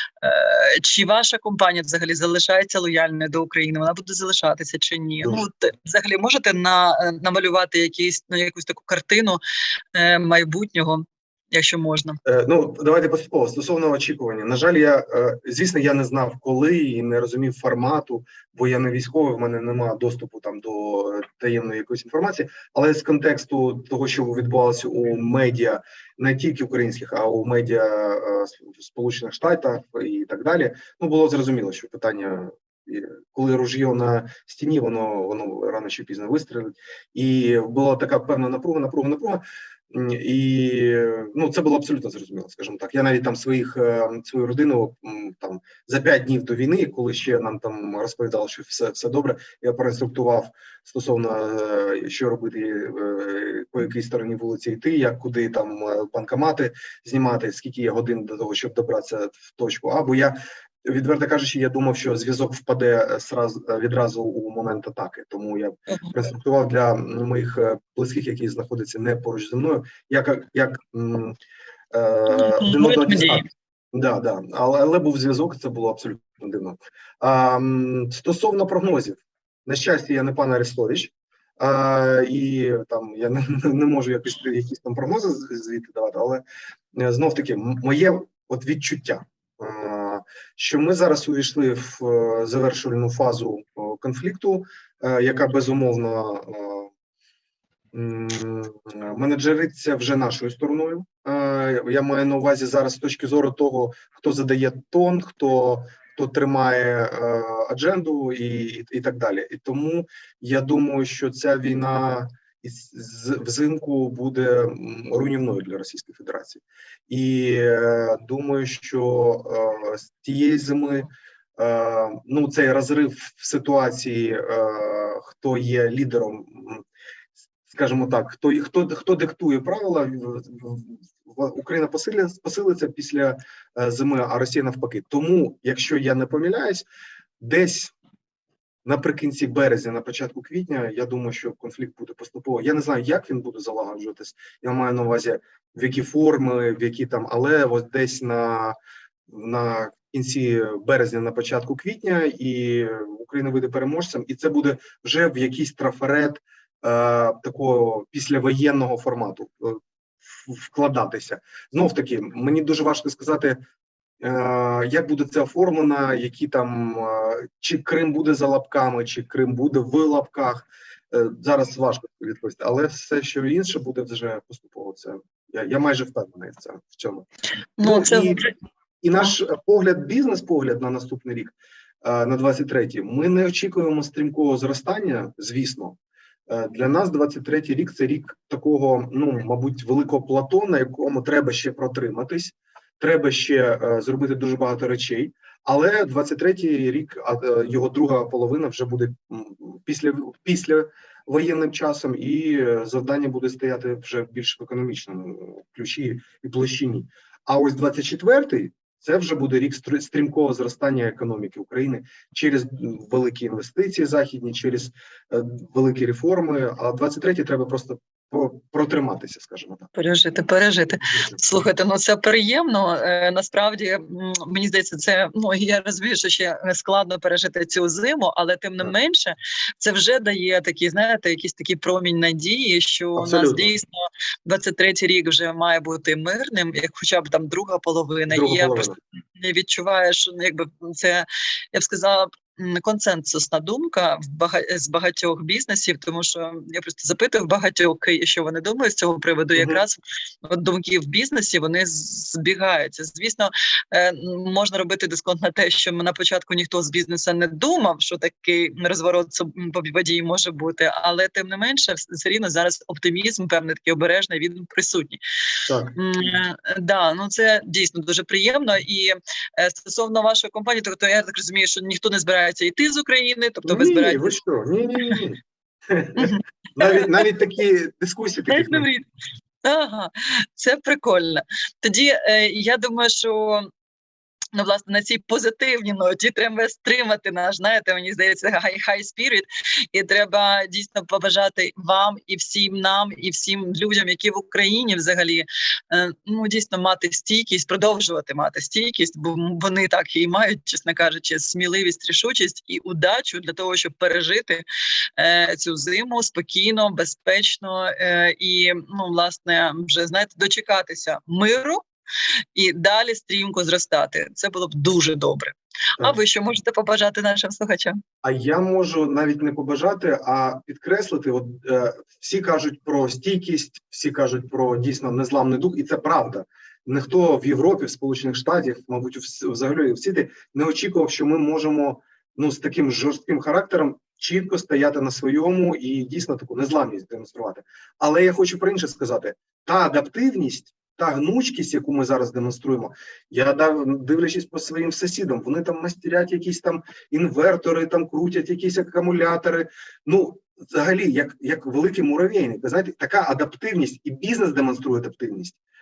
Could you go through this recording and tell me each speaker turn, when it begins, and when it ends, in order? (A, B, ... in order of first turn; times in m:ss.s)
0:00.2-0:09.4 A
0:09.9-0:12.2 A
0:12.2-1:11.4 B
1:11.9-1:26.4 B
1:12.3-1:13.4 A
1:27.0-1:36.9 B
1:37.9-2:06.8 B
2:07.7-2:16.8 B
2:17.4-2:17.9 B
2:18.8-2:28.8 B
2:29.3-2:43.6 B
2:44.2-2:57.3 B
2:57.8-2:58.5 A
2:57.8-2:58.5 B
2:59.0-3:39.9 B
3:40.0-3:53.9 A
3:41.0-3:41.4 B
3:53.2-3:53.7 B
3:54.4-4:25.2 A
3:58.3-3:59.0 B
4:09.6-4:09.8 B
4:25.7-4:26.0 B
4:26.0-4:34.4 A
4:33.6-4:38.9 B
4:36.2-4:37.2 A
4:38.5-4:39.1 A
4:39.6-4:43.7 A
4:44.5-5:04.6 A
5:05.2-5:11.8 A
5:12.6-5:18.0 A
5:18.2-5:55.6 B